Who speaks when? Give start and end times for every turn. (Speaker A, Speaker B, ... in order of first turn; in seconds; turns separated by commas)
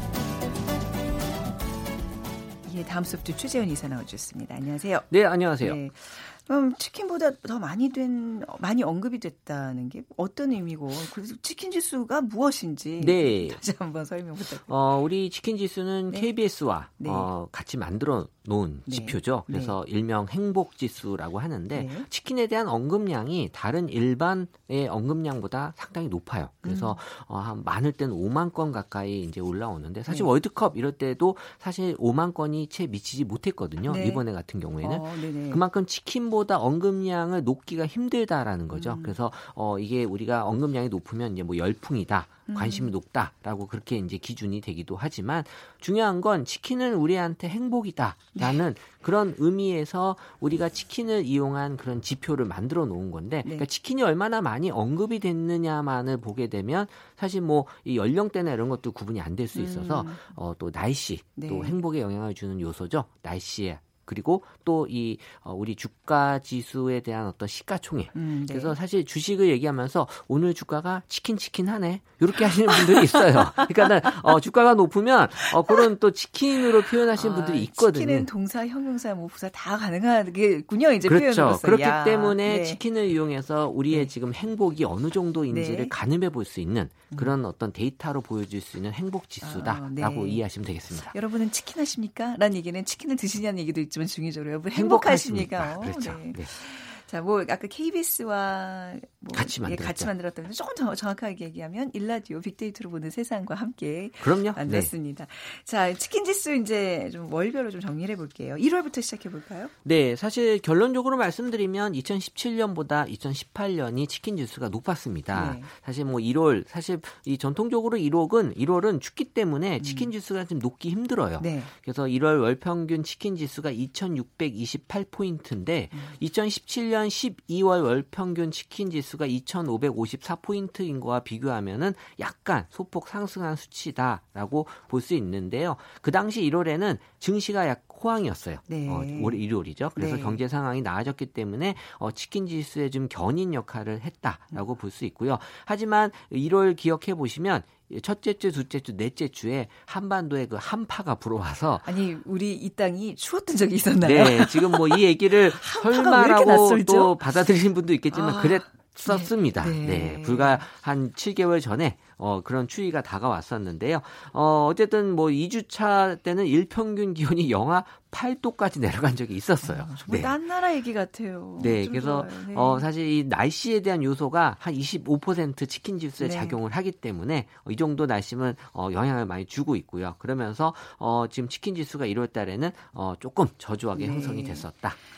Speaker A: 2.6-14.7, Speaker B: 5.1-5.8, Speaker B: 13.0-13.6, Speaker B: 14.7-78.3, Speaker A: 17.0-17.3, Speaker A: 18.9-19.7, Speaker A: 21.7-22.1, Speaker A: 26.6-27.0, Speaker A: 33.9-34.2, Speaker A: 34.8-35.6, Speaker A: 38.7-39.1, Speaker A: 42.5-42.9, Speaker A: 59.5-60.3, Speaker A: 61.4-61.8, Speaker A: 68.1-68.7, Speaker A: 72.5-74.1, Speaker A: 77.1-82.8, Speaker B: 81.0-91.1, Speaker A: 85.5-85.9, Speaker A: 89.4-90.4, Speaker A: 91.0-109.7, Speaker B: 94.7-96.5, Speaker B: 99.3-100.1, Speaker B: 104.2-104.9, Speaker B: 109.8-151.9, Speaker A: 115.3-115.7, Speaker A: 119.8-120.1, Speaker A: 121.4-121.7, Speaker A: 138.7-139.4, Speaker A: 139.9-140.4, Speaker A: 151.8-157.2, Speaker B: 154.0-170.3, Speaker A: 158.1-160.6, Speaker A: 169.6-172.8, Speaker B: 171.6-185.0, Speaker A: 176.2-176.6, Speaker A: 183.9-184.7